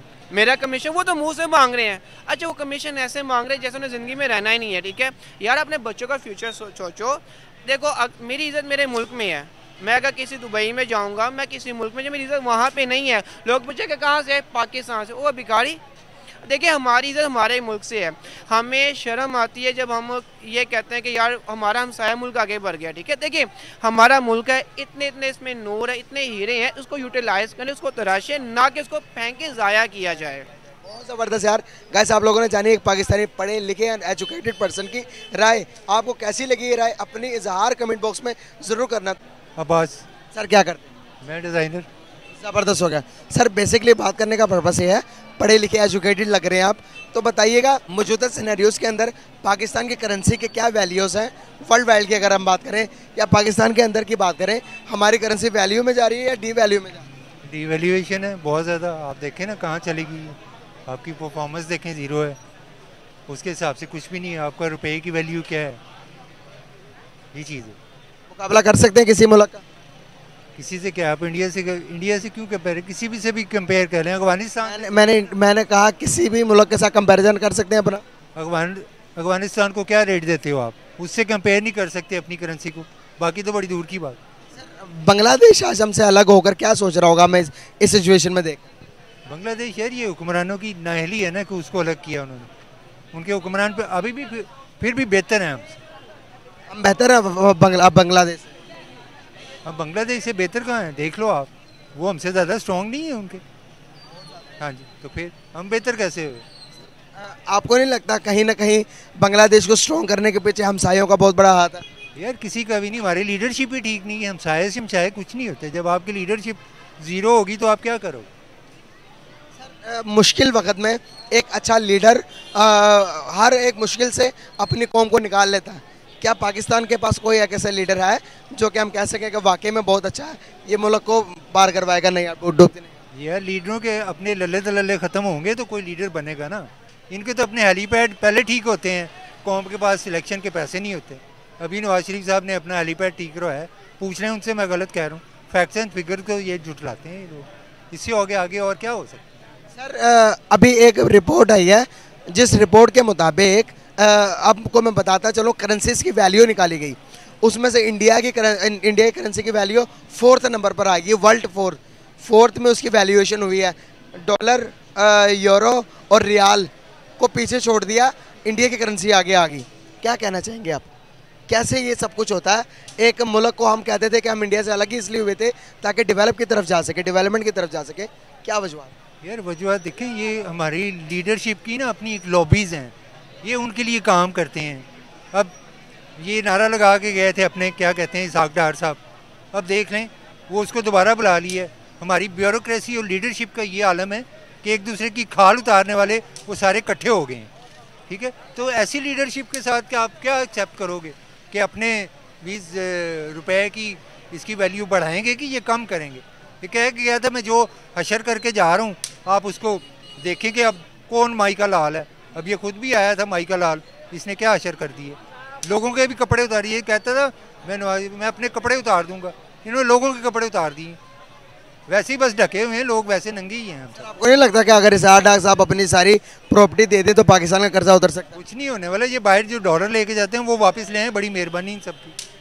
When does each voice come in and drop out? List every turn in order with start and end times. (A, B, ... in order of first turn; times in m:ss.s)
0:00.3-0:15.8 A
0:16.5-0:30.5 A
0:30.8-0:39.2 B
0:39.6-0:40.1 C
0:40.3-0:40.9 B
0:41.2-0:41.9 C
0:42.3-0:57.1 B
0:57.5-1:02.4 C
1:03.3-1:05.8 C
1:07.3-1:07.8 C
1:08.3-1:09.6 B
1:10.6-1:15.0 C
1:14.6-1:18.0 B
1:18.4-1:24.2 C
1:24.5-1:28.6 B
1:29.3-1:32.5 C
1:33.1-1:35.8 C
1:36.7-1:38.5 B
1:39.6-1:43.4 C
1:44.6-1:46.4 C
1:47.2-1:51.8 B
1:52.2-1:58.3 C
1:59.6-2:13.0 B
2:13.1-2:29.2 C
2:29.7-2:50.9 B
2:51.5-2:58.9 B
2:59.2-3:05.5 C
3:06.2-3:09.0 C
3:09.5-3:17.5 C
3:18.1-3:41.0 C
3:41.9-3:44.1 C
3:44.0-3:48.4 B
3:48.4-3:52.2 C